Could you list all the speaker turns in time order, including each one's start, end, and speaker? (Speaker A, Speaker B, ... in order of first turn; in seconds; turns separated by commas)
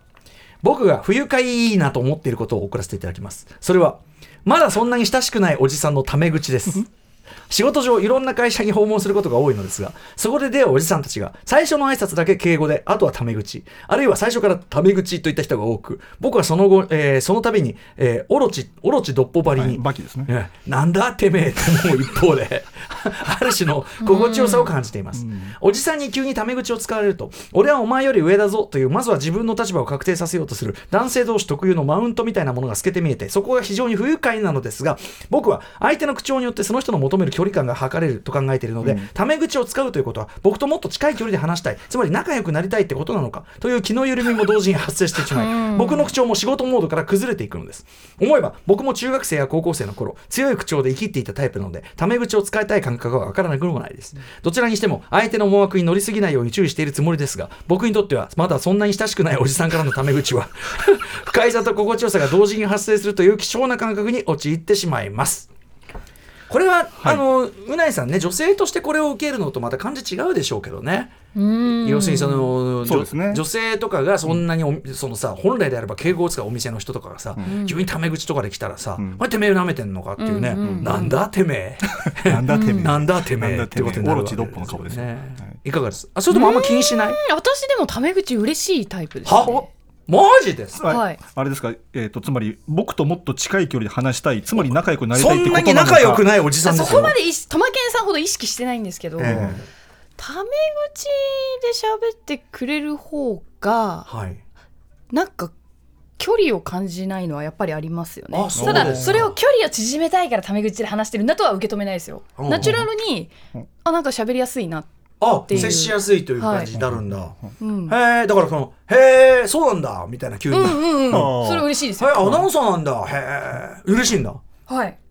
Speaker A: 0.6-6.9, Speaker A: 7.5-65.5, Speaker B: 19.6-20.3, Speaker C: 24.0-24.7, Speaker B: 25.1-25.5, Speaker B: 38.8-39.1, Speaker C: 45.3-46.1, Speaker A: 66.5-71.1, Speaker C: 71.3-72.5, Speaker A: 71.8-87.1, Speaker B: 72.8-73.4, Speaker C: 77.4-77.8, Speaker C: 80.2-81.2, Speaker B: 80.6-81.0, Speaker B: 82.2-85.6, Speaker C: 82.5-82.9, Speaker C: 86.3-89.7, Speaker A: 89.4-90.9, Speaker B: 90.8-96.2, Speaker C: 90.9-91.2, Speaker A: 95.2-97.1, Speaker C: 96.6-99.5, Speaker B: 99.2-99.6, Speaker A: 99.2-99.6, Speaker C: 100.2-104.1, Speaker A: 104.1-104.4, Speaker C: 105.1-105.5, Speaker C: 106.2-113.3, Speaker A: 108.4-109.2, Speaker B: 108.6-109.3, Speaker B: 112.6-112.9, Speaker C: 113.8-114.9, Speaker A: 115.2-117.3, Speaker C: 115.4-116.7, Speaker B: 115.5-115.8, Speaker B: 116.7-117.0, Speaker C: 117.6-117.9, Speaker A: 117.9-120.8, Speaker C: 120.5-122.3, Speaker B: 121.1-122.4, Speaker A: 122.0-124.4, Speaker C: 124.7-125.0